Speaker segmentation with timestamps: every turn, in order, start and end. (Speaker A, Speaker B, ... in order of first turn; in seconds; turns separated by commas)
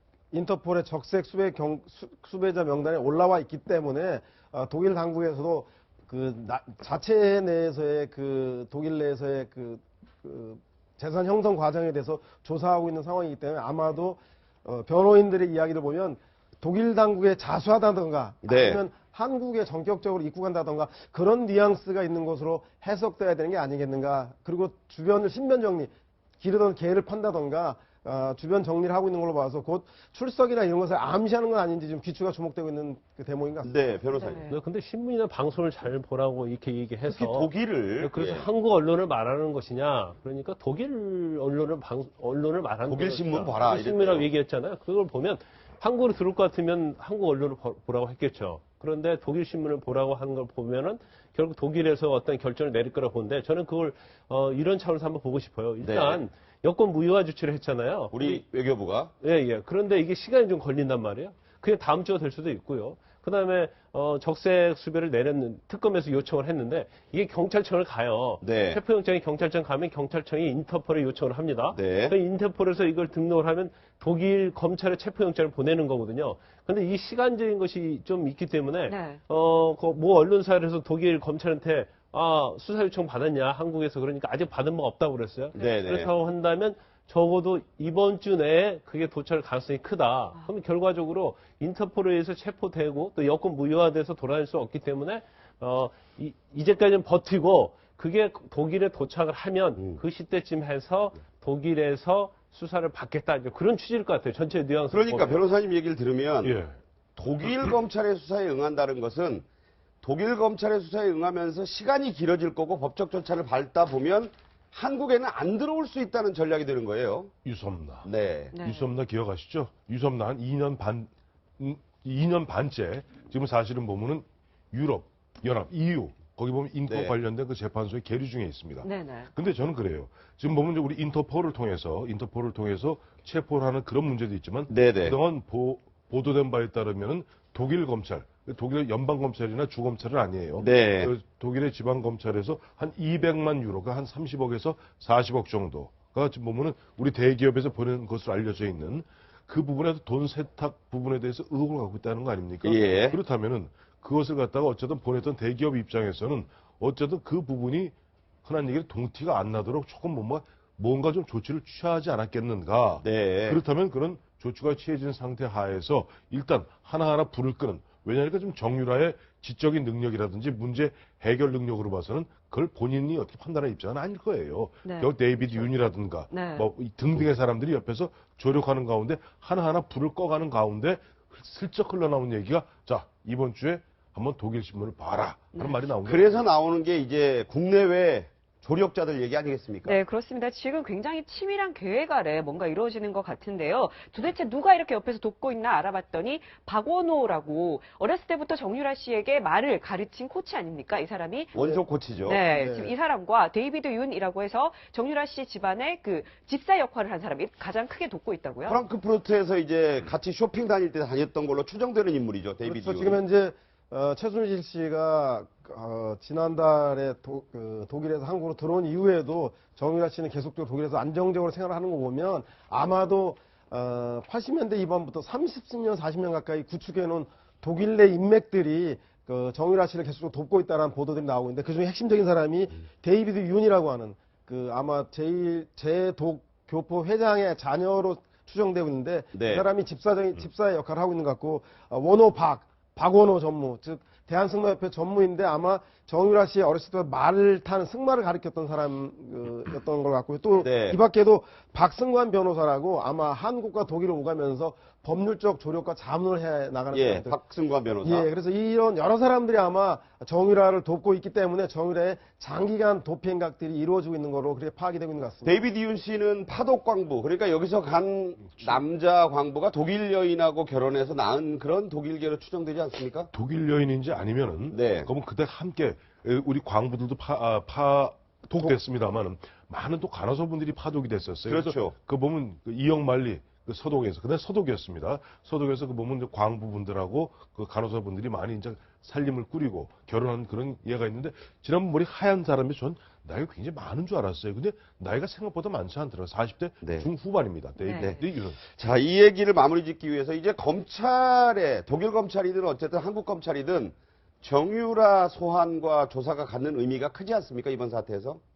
Speaker A: 0.3-33.8, Speaker B: 18.4-18.8, Speaker B: 33.6-34.5, Speaker C: 34.1-34.6, Speaker D: 34.5-58.4, Speaker B: 37.1-38.5, Speaker B: 42.9-44.3, Speaker B: 55.8-56.2, Speaker B: 58.1-59.1, Speaker D: 59.2-105.4, Speaker B: 68.4-68.8, Speaker B: 71.7-72.2, Speaker C: 78.9-79.2, Speaker B: 85.5-86.1, Speaker B: 104.9-106.6, Speaker E: 106.4-106.8, Speaker B: 107.2-109.5, Speaker B: 110.0-117.3, Speaker E: 117.4-118.1, Speaker B: 118.0-118.6, Speaker C: 118.5-118.9, Speaker E: 118.6-157.9, Speaker B: 126.9-127.2, Speaker C: 128.8-129.3, Speaker B: 134.7-135.2, Speaker B: 140.6-141.1, Speaker B: 152.6-153.2, Speaker E: 158.4-186.5, Speaker B: 163.0-163.6, Speaker C: 174.8-175.1, Speaker C: 176.3-176.7, Speaker C: 185.5-185.8, Speaker B: 186.0-190.0, Speaker C: 189.8-201.6, Speaker B: 201.6-202.4, Speaker C: 202.2-208.8, Speaker A: 202.4-202.9, Speaker B: 208.7-213.2, Speaker A: 212.7-257.4, Speaker B: 239.3-239.7, Speaker B: 250.6-251.0, Speaker B: 256.9-258.3, Speaker A: 258.0-265.6, Speaker B: 265.4-273.3, Speaker E: 268.4-268.8, Speaker E: 273.3-298.6, Speaker B: 274.7-275.1, Speaker B: 281.5-281.9, Speaker B: 296.8-297.1, Speaker C: 297.8-298.2, Speaker B: 298.0-308.4